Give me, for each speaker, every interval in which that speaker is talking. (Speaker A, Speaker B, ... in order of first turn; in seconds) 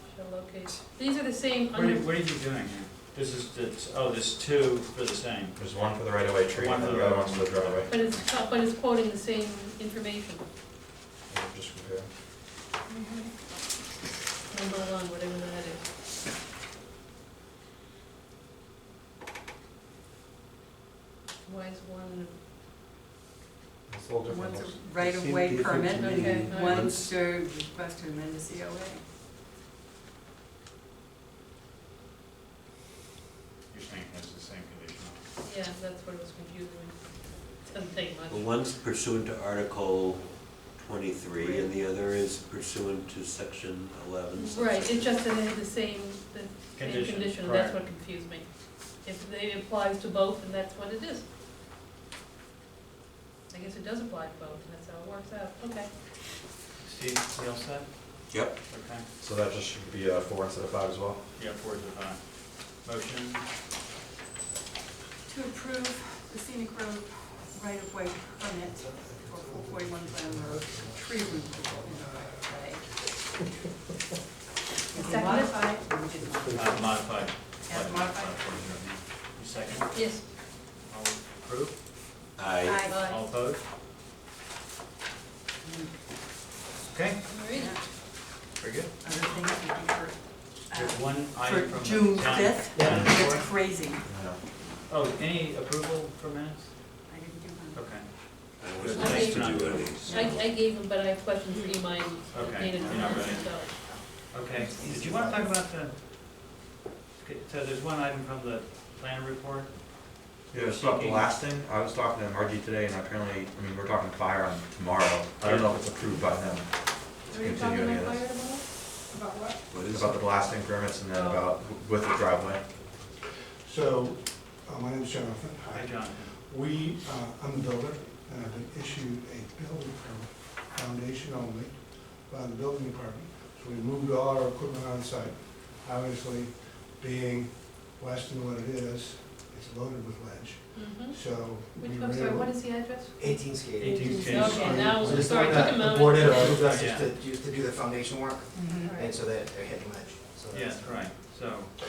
Speaker A: 0.1-2.1, 7.9-10.4, 12.9-13.3, 14.5-15.8, 21.4-22.3, 26.0-26.9, 35.4-38.5, 41.4-41.7, 44.4-51.2, 53.5-55.9, 74.9-75.8, 79.9-80.2, 82.9-83.2, 87.3-87.8, 98.9-103.7, 117.3-118.7, 121.1-121.5, 140.7-146.6, 148.8-149.2
Speaker B: 1.7-5.6, 6.5-8.3, 33.7-35.2, 46.8-47.8, 56.8-57.9, 58.7-59.1, 61.3-62.2, 62.7-63.4, 76.5-81.8, 82.9-83.6, 86.9-87.3, 88.6-88.9, 90.8-93.5, 94.9-96.8, 97.7-100.1, 102.3-103.5, 104.3-105.9, 107.2-109.8, 110.6-111.4, 115.4-116.2, 125.7-126.3, 143.8-145.0, 146.2-147.1, 150.5-151.7
Speaker C: 5.6-7.9, 11.3-12.1, 23.9-26.0, 58.3-58.6, 59.2-61.2, 92.8-93.1, 94.0-94.4, 110.5-116.7, 117.3-118.2, 119.8-122.6
Speaker D: 24.3-29.0, 65.3-72.9, 74.9-77.0, 77.6-78.6, 82.6-83.1, 85.6-86.0, 87.5-87.9, 89.0-94.9, 97.0-98.0, 100.0-100.4, 148.5-148.9
Speaker E: 25.4-27.1, 38.3-45.2, 82.4-82.8, 98.6-100.3, 119.7-120.3
Speaker F: 68.7-73.7, 76.2-77.2, 123.6-142.8, 144.3-146.6
Speaker G: 92.8-93.4, 102.8-104.0, 104.6-105.5, 143.2-151.1